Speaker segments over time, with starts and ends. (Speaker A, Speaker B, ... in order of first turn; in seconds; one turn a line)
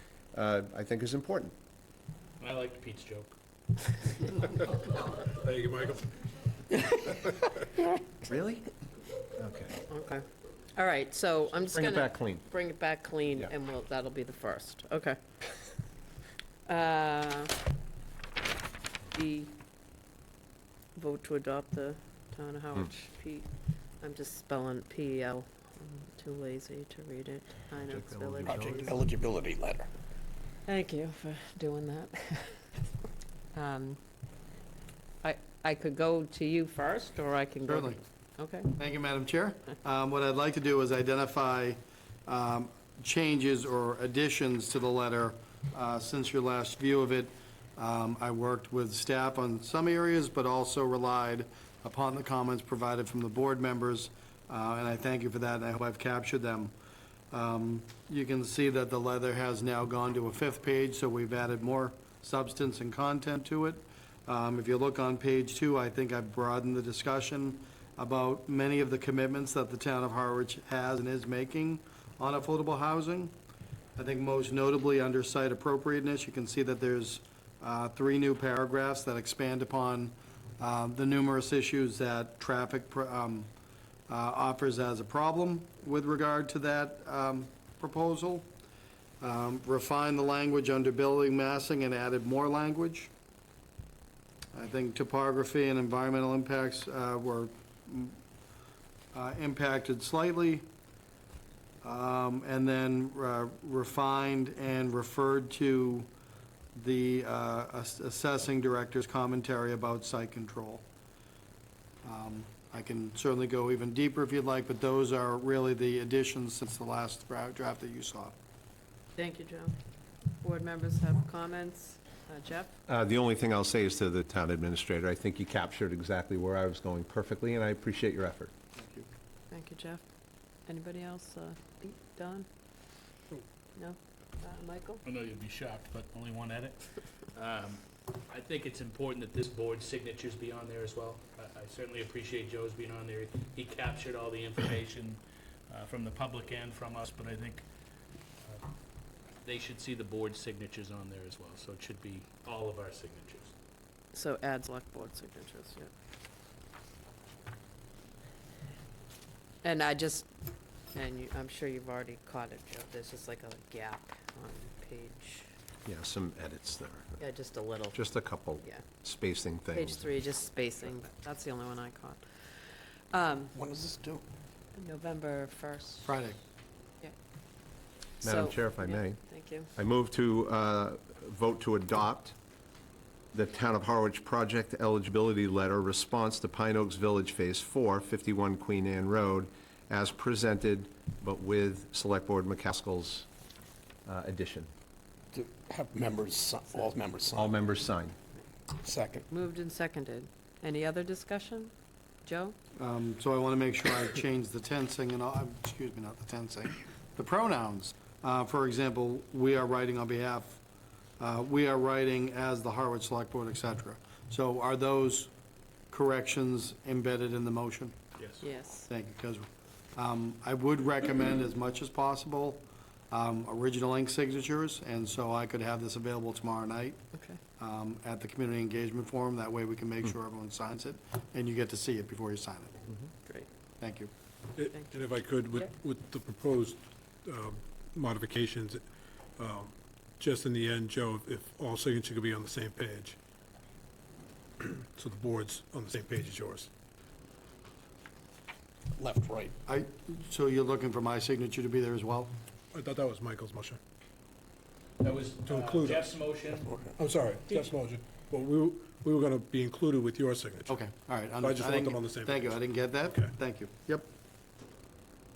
Speaker A: 0.3-1.5
Speaker B: 2.4-3.3
Speaker C: 5.2-6.2
Speaker C: 7.0-7.4
Speaker A: 8.2-8.7
Speaker A: 9.3-9.8
Speaker D: 9.9-15.2
Speaker A: 11.7-12.5
Speaker D: 16.6-17.6
Speaker D: 19.1-19.5
Speaker D: 20.9-23.5
Speaker D: 24.0-28.9
Speaker A: 27.9-28.9
Speaker E: 28.4-29.9
Speaker D: 30.6-32.6
Speaker D: 33.5-34.0
Speaker D: 35.2-38.7
Speaker F: 37.6-38.0
Speaker F: 38.7-56.7
Speaker F: 57.3-73.3
Speaker F: 74.0-83.5
Speaker F: 84.1-88.5
Speaker F: 89.2-93.1
Speaker F: 94.5-98.2
Speaker F: 99.1-100.7
Speaker F: 101.8-106.1
Speaker F: 106.7-110.8
Speaker F: 112.0-118.3
Speaker D: 119.2-119.8
Speaker D: 120.4-122.7
Speaker A: 122.9-128.5
Speaker F: 128.8-129.1
Speaker D: 129.5-130.0
Speaker D: 130.7-132.5
Speaker D: 133.8-135.0
Speaker B: 135.0-147.6
Speaker B: 149.4-153.5
Speaker D: 154.1-155.9
Speaker D: 159.6-160.3
Speaker D: 160.9-165.5
Speaker A: 165.8-167.2
Speaker D: 167.2-168.1
Speaker A: 167.9-170.1
Speaker D: 169.7-172.2
Speaker D: 173.1-173.5
Speaker E: 173.5-174.2
Speaker D: 174.7-176.1
Speaker F: 176.0-176.4
Speaker D: 178.2-179.7
Speaker A: 178.2-179.2
Speaker A: 179.8-182.3
Speaker A: 183.3-193.3
Speaker A: 194.1-194.7
Speaker E: 195.3-197.6
Speaker A: 197.3-198.1
Speaker E: 198.8-199.2
Speaker D: 199.3-201.7
Speaker D: 202.2-202.6
Speaker F: 202.8-210.6
Speaker F: 211.2-215.3
Speaker F: 215.9-218.0
Speaker D: 218.4-218.9
Speaker F: 218.9-227.0
Speaker D: 227.1-227.4
Speaker F: 227.6-232.8
Speaker F: 233.8-234.1
Speaker C: 234.6-238.8
Speaker C: 239.4-243.2
Speaker C: 244.6-246.7
Speaker E: 248.9-249.5
Speaker F: 249.7-252.3
Speaker C: 252.7-253.8
Speaker B: 255.0-256.7
Speaker C: 255.4-256.1
Speaker E: 256.6-256.9
Speaker C: 257.0-260.8
Speaker F: 260.7-264.1
Speaker C: 261.4-262.6